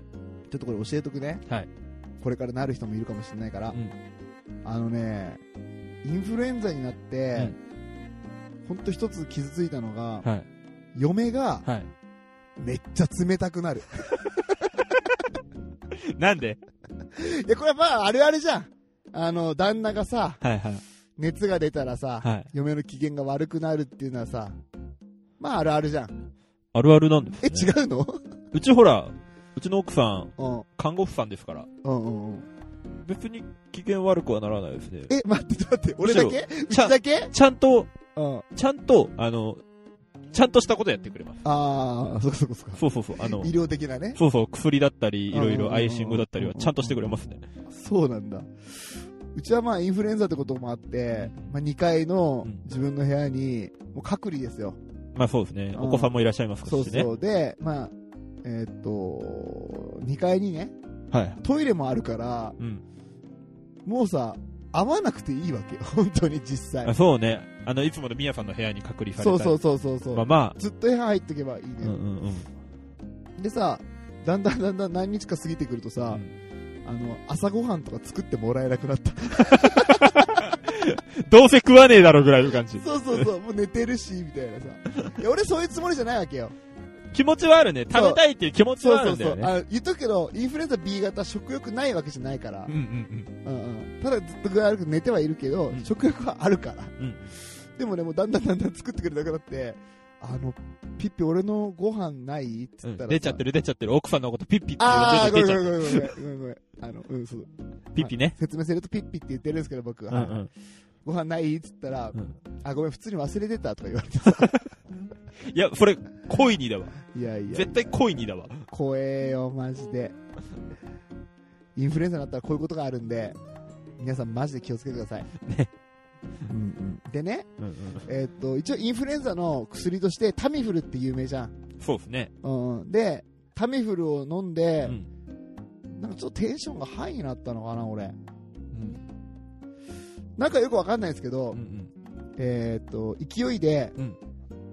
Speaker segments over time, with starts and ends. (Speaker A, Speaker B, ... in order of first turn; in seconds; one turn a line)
Speaker A: 0.5-1.4
Speaker A: 2.2-3.8
Speaker A: 4.6-5.4
Speaker A: 6.0-7.5
Speaker A: 8.7-10.2
Speaker A: 10.9-11.7
Speaker A: 12.6-14.1
Speaker B: 15.9-16.6
Speaker A: 17.2-20.4
Speaker B: 20.4-20.8
Speaker A: 21.2-24.6
Speaker B: 22.2-22.5
Speaker A: 25.4-26.1
Speaker B: 26.7-27.7
Speaker A: 27.4-28.2
Speaker B: 28.5-31.7
Speaker A: 30.4-30.6
Speaker A: 31.8-32.5
Speaker B: 33.0-35.1
Speaker A: 35.1-37.3
Speaker B: 36.0-37.9
Speaker A: 38.1-38.4
Speaker B: 38.5-39.6
Speaker B: 40.3-41.4
Speaker A: 41.4-44.2
Speaker B: 42.8-43.5
Speaker B: 44.1-47.4
Speaker A: 45.3-47.1
Speaker A: 47.7-48.5
Speaker A: 49.3-54.8
Speaker B: 51.2-51.5
Speaker B: 55.1-57.1
Speaker A: 55.7-56.1
Speaker A: 56.6-57.9
Speaker A: 58.4-60.7
Speaker B: 61.1-61.4
Speaker A: 61.4-62.6
Speaker A: 63.8-66.9
Speaker B: 66.8-69.6
Speaker A: 69.2-72.0
Speaker B: 70.1-70.6
Speaker B: 71.8-72.5
Speaker A: 73.4-76.2
Speaker A: 76.8-80.4
Speaker B: 79.5-83.3
Speaker A: 82.8-86.5
Speaker B: 87.1-89.5
Speaker A: 87.9-88.2
Speaker A: 88.8-92.8
Speaker B: 92.7-93.3
Speaker A: 93.4-96.9
Speaker B: 97.0-97.3
Speaker A: 97.8-103.4
Speaker B: 102.8-106.1
Speaker A: 104.8-110.4
Speaker B: 107.9-108.3
Speaker B: 110.1-110.5
Speaker A: 111.0-114.6
Speaker B: 115.4-117.0
Speaker A: 117.1-118.0
Speaker B: 117.5-118.6
Speaker A: 118.7-120.2
Speaker A: 121.7-123.4
Speaker A: 124.0-125.3
Speaker B: 125.4-125.7
Speaker A: 126.5-127.5
Speaker B: 127.6-128.1
Speaker A: 128.0-131.5
Speaker B: 131.8-132.3
Speaker A: 132.4-135.0
Speaker A: 135.9-138.2
Speaker B: 138.7-139.0
Speaker A: 140.4-141.6
Speaker B: 141.5-141.9
Speaker A: 142.4-143.9